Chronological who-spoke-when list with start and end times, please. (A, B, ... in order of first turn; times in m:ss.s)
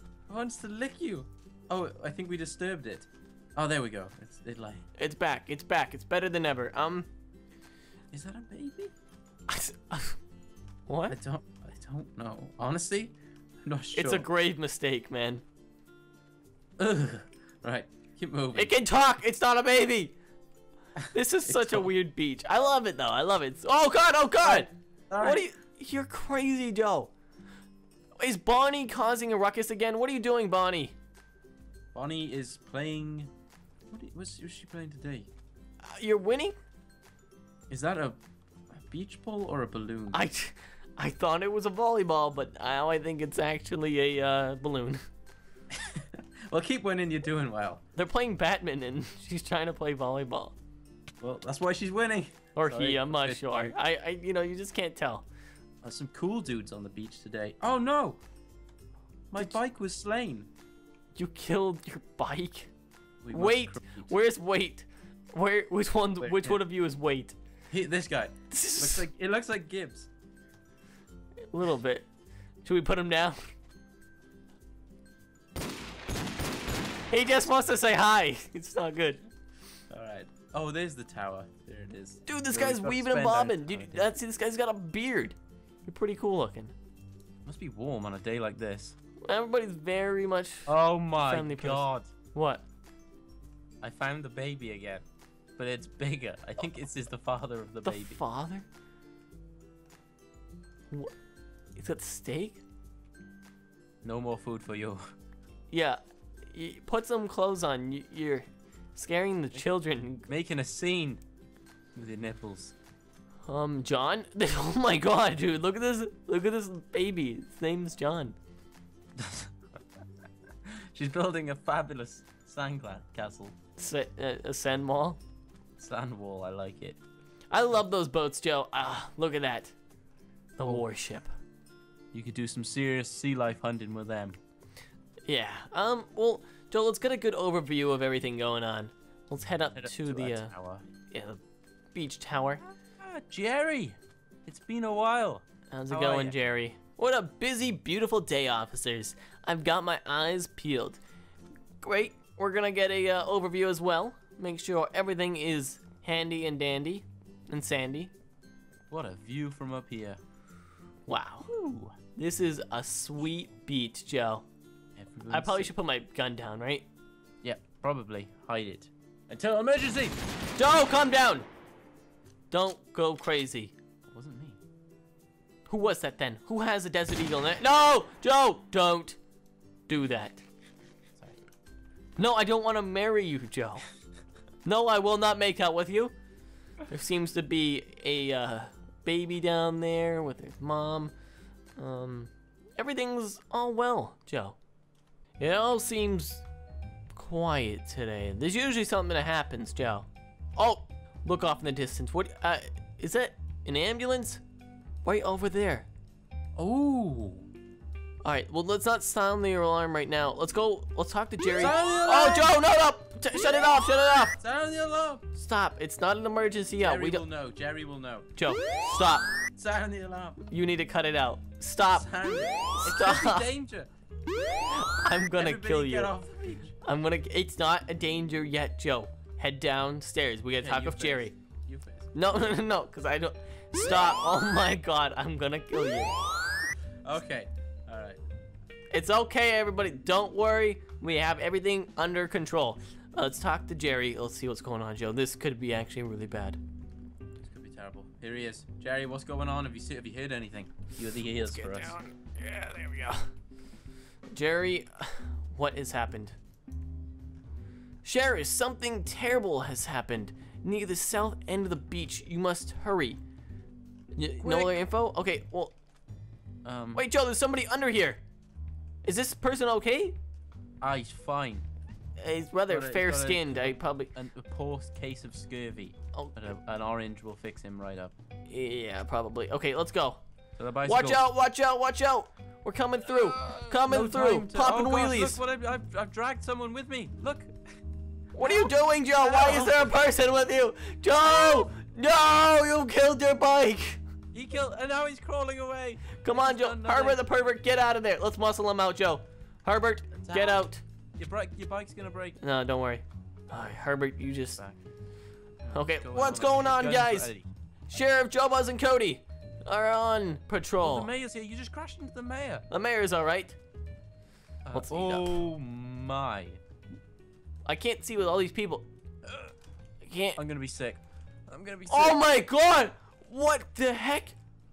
0:00.3-0:04.8 A
0:05.0-0:07.1 B
0:08.1-0:08.9 A
0:09.5-0:10.2 B
0:10.9-0:11.2 B
0:11.1-0:13.1 A
0:13.6-0:14.3 A
0:14.0-0:15.4 B
0:16.8-0:18.7 A
0:18.6-0:20.2 B
0:21.1-0:27.1 B
0:21.5-0:21.9 A
0:24.4-0:25.4 A
0:28.2-0:31.0 B
0:31.9-0:33.3 A
0:33.9-0:35.3 A
0:35.8-0:36.6 B
0:37.7-0:40.2 A
0:40.1-0:45.0 B
0:45.7-0:47.8 A
0:48.0-0:50.6 B
0:51.2-0:53.7 A
0:52.6-0:55.2 B
0:55.8-0:58.2 A
0:59.3-1:00.5 A
1:01.2-1:02.7 B
1:03.2-1:04.1 A
1:03.3-1:07.4 B
1:06.2-1:06.6 A
1:07.7-1:10.1 A
1:08.5-1:09.1 B
1:11.5-1:12.1 B
1:12.6-1:13.4 B
1:17.1-1:19.2 B
1:19.9-1:24.1 A
1:22.2-1:26.7 B
1:27.4-1:29.0 A
1:29.2-1:32.6 B
1:30.6-1:32.1 A
1:33.8-1:35.0 A
1:35.6-1:38.2 A
1:37.8-1:38.6 B
1:41.8-1:42.6 B
1:44.0-1:45.1 A
1:45.7-1:50.3 B
1:50.3-1:51.2 A
1:52.0-1:52.8 A
1:53.5-1:58.4 B
1:59.2-1:59.5 A
2:00.6-2:03.6 A
2:03.8-2:05.2 B
2:05.8-2:07.0 A
2:07.5-2:09.8 B
2:10.6-2:11.3 B
2:12.1-2:14.4 A
2:15.2-2:20.5 B
2:19.8-2:20.8 A
2:21.1-2:21.4 B
2:21.9-2:22.6 B
2:23.0-2:26.4 A
2:25.7-2:31.0 B
2:31.8-2:38.1 B
2:38.9-2:40.2 A
2:41.1-2:41.5 B
2:41.5-2:42.0 A
2:42.2-2:44.4 B
2:45.0-2:45.7 A
2:45.3-2:46.9 B
2:47.4-2:50.2 A
2:50.6-2:51.5 B
2:52.5-2:53.7 B
2:54.1-2:54.6 A
2:55.7-2:59.2 B
2:59.9-3:00.4 B
3:01.2-3:01.4 A
3:02.2-3:03.9 B
3:04.6-3:06.1 B
3:06.9-3:11.1 B
3:11.8-3:14.6 B
3:15.4-3:16.4 B
3:17.1-3:24.4 B
3:25.0-3:25.9 B
3:26.6-3:27.5 A
3:28.2-3:34.4 B
3:31.5-3:32.6 A
3:34.4-3:35.2 A
3:35.3-3:37.2 B
3:36.8-3:38.3 A
3:38.4-3:39.3 B
3:39.5-3:40.4 A
3:40.5-3:42.1 B
3:41.9-3:43.9 A
3:42.8-3:43.5 B
3:44.7-3:46.1 B
3:45.4-3:46.8 A
3:46.8-3:51.3 B
3:50.6-3:52.1 A
3:52.1-3:56.1 B
3:57.0-3:58.2 A
3:58.9-4:06.6 B
4:07.4-4:12.0 A
4:11.4-4:13.3 B
4:14.3-4:16.4 B
4:18.0-4:23.2 B
4:24.2-4:25.7 B
4:24.4-4:24.8 A
4:26.6-4:27.0 A
4:27.0-4:28.2 B
4:29.0-4:30.2 B
4:30.8-4:31.6 A
4:32.2-4:34.1 B
4:32.7-4:38.1 A
4:38.5-4:40.2 B
4:40.6-4:41.2 A
4:40.8-4:45.4 B
4:43.4-4:47.6 A
4:48.4-4:54.0 B
4:48.4-4:49.9 A
4:54.3-4:57.2 A
4:56.2-5:00.8 B
5:00.2-5:00.6 A
5:01.2-5:02.4 A
5:02.4-5:04.6 B
5:05.6-5:07.5 A
5:05.7-5:07.3 B
5:07.9-5:11.1 B
5:10.8-5:12.6 A
5:12.7-5:13.6 B
5:14.6-5:16.6 A
5:14.7-5:15.4 B
5:17.6-5:18.9 B
5:20.0-5:20.4 B
5:20.4-5:22.2 A
5:21.9-5:24.4 B